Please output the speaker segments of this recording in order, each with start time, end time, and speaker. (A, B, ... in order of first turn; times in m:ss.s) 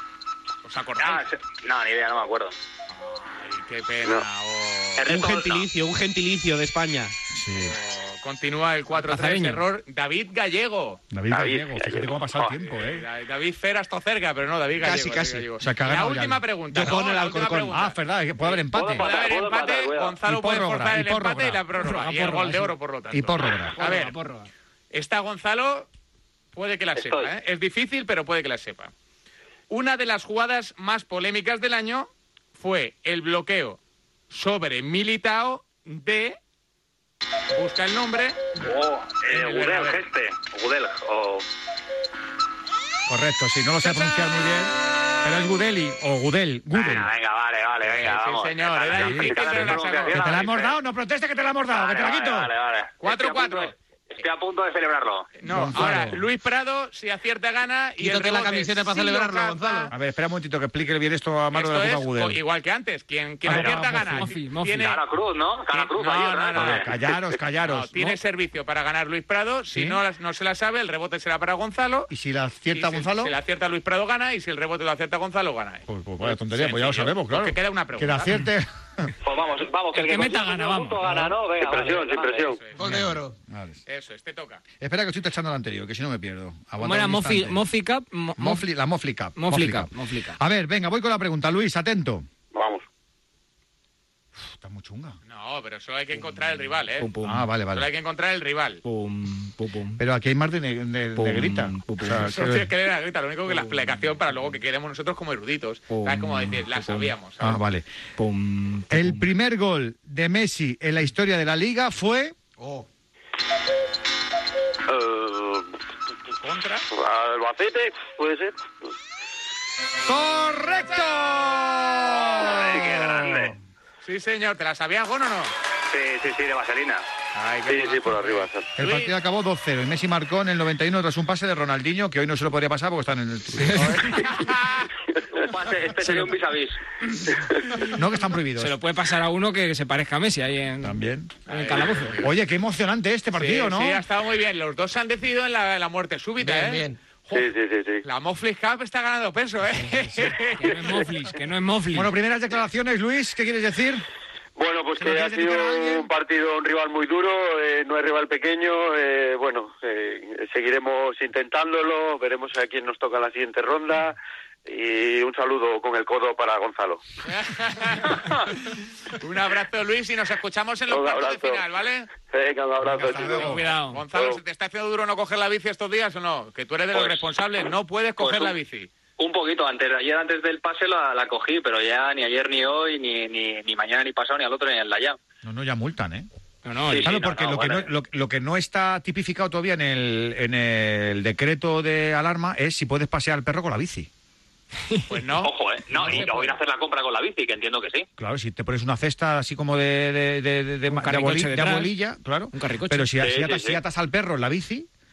0:00.6-0:01.3 A
0:01.0-0:02.5 B
0:02.9-0:05.1 A
0:05.0-0:05.7 B
0:05.1-0:07.2 C
0:07.3-0:07.8 D
0:07.6-0:11.0 A
0:09.0-0:09.6 E
0:11.1-0:13.1 D
0:11.3-0:12.5 F
0:12.6-0:18.0 A
0:14.8-0:15.5 C
0:15.6-0:19.1 D
0:16.7-0:17.8 C
0:18.5-0:20.2 B
0:19.0-0:24.1 A
0:20.2-0:21.6 D
0:21.8-0:22.7 E
0:23.1-0:23.8 D
0:23.8-0:24.5 E
0:24.9-0:25.9 A
0:26.5-0:28.9 A
0:27.0-0:27.3 B
0:29.7-0:33.8 A
0:34.3-0:36.4 A
0:37.5-0:38.4 A
0:38.6-0:41.5 B
0:39.3-0:40.0 A
0:43.1-0:47.1 D
0:43.8-0:44.4 A
0:46.7-0:50.7 B
0:47.9-0:50.5 A
0:48.9-0:52.5 D
0:51.7-0:55.3 B
0:53.0-0:53.7 A
0:55.4-0:59.9 A
0:55.5-0:56.2 D
0:58.0-0:59.9 C
0:59.9-1:02.4 D
1:01.5-1:05.0 A
1:03.5-1:04.3 D
1:03.5-1:04.9 E
1:04.8-1:06.9 B
1:05.7-1:07.0 A
1:06.6-1:08.2 D
1:07.6-1:12.1 A
1:09.7-1:10.0 D
1:12.1-1:13.3 D
1:12.7-1:18.3 A
1:15.9-1:19.1 D
1:19.2-1:22.5 B
1:19.9-1:21.3 E
1:21.6-1:22.6 F
1:22.6-1:23.1 A
1:22.8-1:23.4 C
1:22.8-1:23.8 D
1:23.9-1:24.6 A
1:24.8-1:27.6 D
1:26.8-1:28.6 E
1:28.4-1:32.3 D
1:29.4-1:30.4 E
1:32.5-1:32.8 F
1:34.4-1:35.2 D
1:35.3-1:37.1 A
1:37.0-1:37.5 E
1:37.2-1:37.9 D
1:37.7-1:38.8 A
1:38.8-1:40.0 E
1:40.0-1:42.7 D
1:41.2-1:42.3 E
1:42.1-1:47.6 A
1:43.5-1:43.7 E
1:45.9-1:47.1 E
1:47.4-1:47.9 D
1:48.2-1:49.3 E
1:48.9-1:52.4 D
1:52.6-1:52.9 C
1:54.9-1:55.7 F
1:56.4-1:56.9 A
1:56.9-1:58.9 F
2:00.0-2:03.6 D
2:02.4-2:03.5 B
2:04.0-2:05.5 A
2:05.9-2:07.0 B
2:07.4-2:09.1 A
2:07.7-2:08.6 F
2:08.8-2:14.3 D
2:13.6-2:14.2 E
2:14.2-2:14.9 A
2:15.3-2:16.8 B
2:16.0-2:16.3 D
2:17.9-2:18.8 D
2:18.6-2:21.0 E
2:20.8-2:21.4 D
2:21.5-2:22.2 E
2:21.5-2:22.3 A
2:22.2-2:24.0 D
2:23.3-2:27.5 A
2:26.4-2:27.0 C
2:27.3-2:28.0 F
2:28.0-2:31.0 A
2:30.6-2:32.1 E
2:31.9-2:34.0 D
2:34.6-2:47.0 F
2:35.0-2:36.1 D
2:47.3-2:48.3 A
2:49.2-2:52.1 A
2:50.9-2:51.6 F
2:52.3-2:53.6 F
2:52.8-2:53.8 D
2:53.2-2:58.9 A
2:53.4-2:54.0 E
2:54.1-2:54.4 F
2:56.9-2:57.2 B
2:58.2-2:58.6 B
2:59.2-3:05.2 B
3:05.4-3:06.3 D
3:06.6-3:07.1 E
3:06.9-3:07.9 B
3:07.0-3:14.1 D
3:15.1-3:16.5 A
3:15.4-3:18.1 B
3:18.2-3:24.9 D
3:20.9-3:21.9 E
3:22.5-3:23.1 E
3:23.2-3:23.8 B